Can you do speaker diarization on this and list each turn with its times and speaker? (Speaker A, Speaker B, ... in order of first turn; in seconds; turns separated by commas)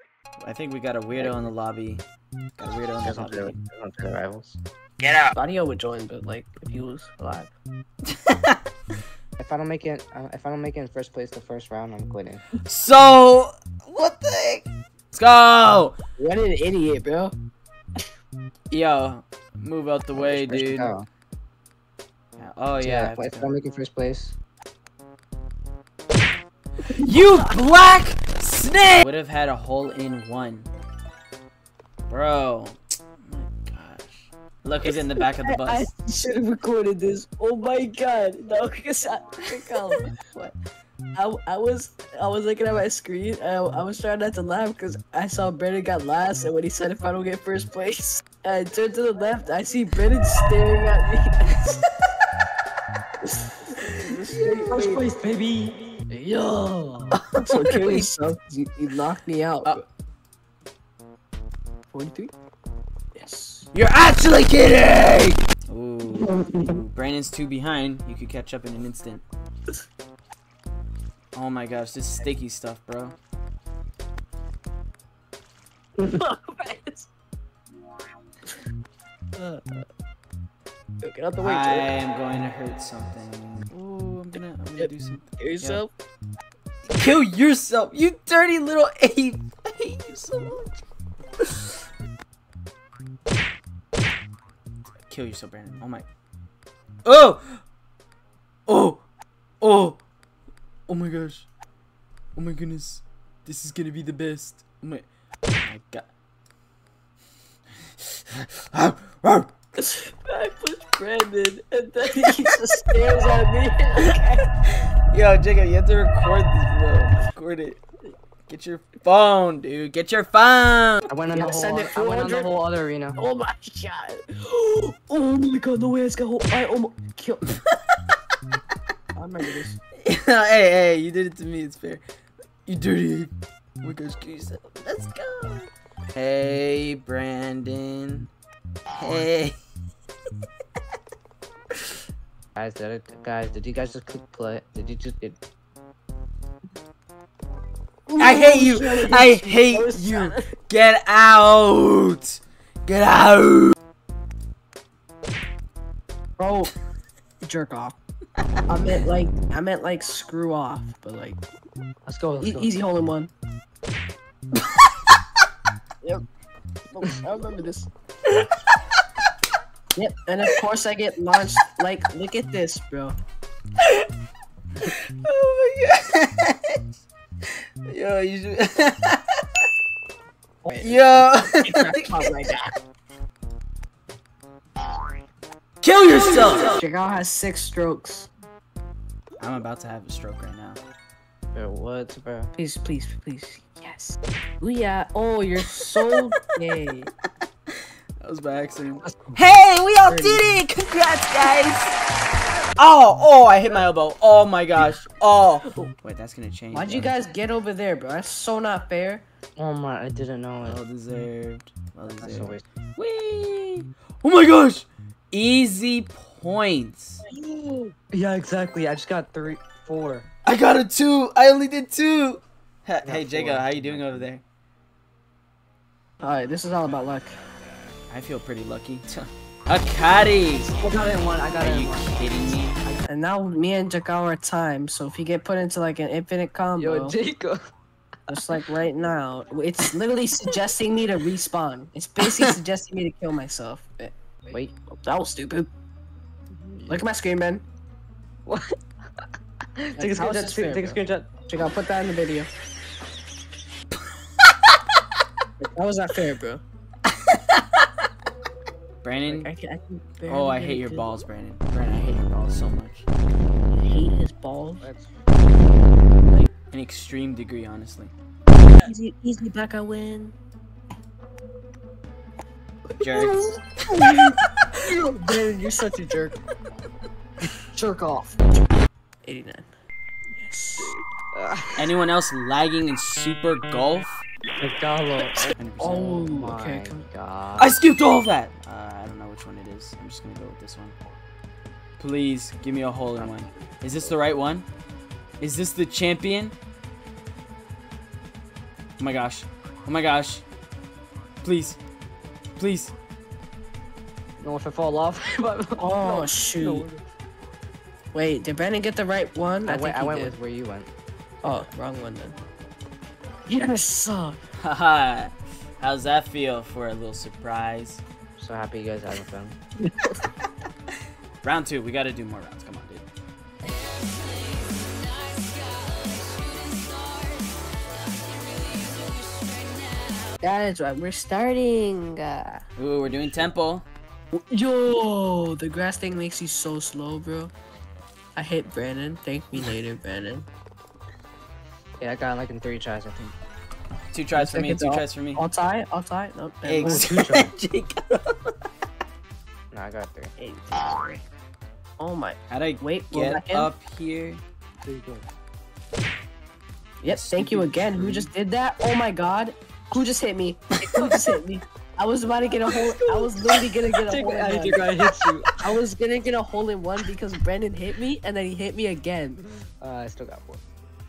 Speaker A: 0.4-2.0, Speaker A: 2.6-3.6, Speaker B: 3.0-4.6, Speaker A: 5.0-5.3, Speaker C: 5.3-7.5, Speaker A: 8.1-8.6, Speaker B: 9.4-12.4, Speaker A: 12.6-15.9, Speaker C: 16.2-17.3, Speaker A: 18.7-20.9, Speaker B: 20.1-21.1, Speaker A: 22.4-23.6, Speaker B: 22.8-24.4, Speaker C: 26.9-27.5, Speaker A: 26.9-30.7, Speaker A: 32.1-35.9, Speaker C: 34.8-40.1, Speaker A: 40.0-40.6, Speaker C: 41.1-51.8, Speaker C: 53.2-55.0, Speaker B: 54.4-57.2, Speaker C: 56.2-56.6, Speaker A: 57.1-58.1, Speaker C: 57.3-59.8, Speaker C: 61.9-62.3, Speaker C: 63.1-63.7, Speaker A: 63.7-69.2, Speaker C: 66.2-66.8, Speaker A: 71.3-73.2, Speaker C: 76.0-77.1, Speaker C: 79.3-79.8, Speaker C: 81.0-81.9, Speaker A: 81.4-85.8, Speaker C: 84.8-85.9, Speaker A: 87.0-90.8, Speaker A: 91.4-91.7, Speaker A: 95.1-96.0, Speaker A: 97.0-97.6, Speaker A: 98.7-99.0, Speaker A: 99.6-100.0, Speaker A: 100.9-101.5, Speaker A: 102.3-105.0, Speaker A: 105.6-106.1, Speaker A: 108.0-109.5, Speaker C: 109.8-114.5, Speaker A: 115.1-117.8, Speaker A: 118.5-121.0, Speaker B: 121.1-123.2, Speaker C: 121.3-122.5, Speaker C: 123.2-127.6, Speaker C: 129.2-129.8, Speaker A: 130.0-132.0, Speaker A: 132.7-138.3, Speaker A: 139.0-139.5, Speaker B: 142.6-145.4, Speaker C: 148.1-150.5, Speaker A: 148.2-153.7, Speaker C: 156.4-156.7, Speaker C: 157.4-158.0, Speaker C: 158.7-161.4, Speaker B: 162.1-162.7, Speaker C: 162.4-163.3, Speaker C: 166.9-167.9, Speaker C: 169.9-173.2, Speaker A: 174.9-176.8, Speaker A: 177.5-179.7, Speaker C: 180.6-181.0, Speaker A: 180.8-182.2, Speaker C: 181.6-182.7, Speaker A: 185.8-186.8, Speaker C: 186.6-188.3, Speaker A: 189.4-190.8, Speaker B: 191.5-192.5, Speaker C: 192.6-197.1, Speaker A: 198.2-201.9, Speaker B: 199.0-199.4, Speaker C: 200.1-200.4, Speaker A: 202.8-207.1, Speaker C: 206.7-209.2, Speaker B: 209.6-210.8, Speaker A: 210.6-217.2, Speaker B: 212.2-212.6, Speaker C: 217.3-217.9, Speaker B: 218.1-220.3, Speaker A: 220.4-224.4, Speaker B: 223.0-224.3, Speaker C: 226.2-227.3, Speaker A: 228.1-230.7, Speaker B: 230.7-233.0, Speaker A: 231.6-232.8, Speaker C: 233.1-237.2, Speaker B: 236.8-237.6, Speaker C: 238.3-244.1, Speaker C: 245.0-245.7, Speaker B: 246.6-247.0, Speaker C: 246.9-247.6, Speaker B: 248.5-248.8, Speaker B: 249.8-251.3, Speaker C: 249.9-252.5, Speaker C: 255.6-256.6, Speaker A: 257.3-257.9, Speaker A: 259.0-259.5, Speaker C: 259.3-261.2, Speaker A: 260.3-263.1, Speaker C: 263.7-264.9, Speaker B: 264.8-265.1, Speaker A: 266.3-268.1, Speaker C: 268.8-270.3, Speaker C: 272.9-276.4, Speaker A: 273.0-273.4, Speaker C: 277.7-278.4, Speaker C: 279.2-279.7, Speaker C: 280.4-281.0, Speaker B: 280.8-281.9, Speaker A: 281.8-284.2, Speaker B: 284.6-287.8, Speaker C: 285.2-287.0, Speaker A: 285.6-286.1, Speaker A: 287.6-290.9, Speaker A: 292.0-294.6, Speaker A: 295.4-296.6, Speaker A: 299.0-300.4, Speaker A: 301.4-301.8, Speaker A: 302.6-302.9, Speaker B: 304.4-307.0, Speaker C: 305.8-306.9, Speaker C: 308.1-310.3, Speaker B: 309.6-310.9, Speaker C: 311.4-312.4, Speaker C: 313.5-314.4, Speaker A: 314.6-318.0, Speaker B: 318.4-319.6, Speaker C: 319.8-320.2, Speaker A: 321.4-323.0, Speaker A: 324.3-330.3, Speaker C: 330.4-332.6, Speaker A: 332.8-333.9, Speaker C: 334.3-337.5, Speaker C: 338.3-340.4, Speaker B: 342.0-343.3, Speaker A: 344.1-345.4, Speaker C: 344.3-347.1, Speaker A: 346.6-348.5, Speaker B: 346.8-347.5, Speaker B: 349.7-350.3, Speaker C: 350.4-351.2, Speaker C: 352.0-353.7, Speaker A: 352.5-354.4, Speaker B: 354.8-355.3, Speaker A: 357.0-358.3, Speaker C: 357.0-364.8, Speaker A: 360.8-361.1, Speaker B: 364.1-365.5, Speaker C: 365.6-369.4, Speaker B: 369.8-370.6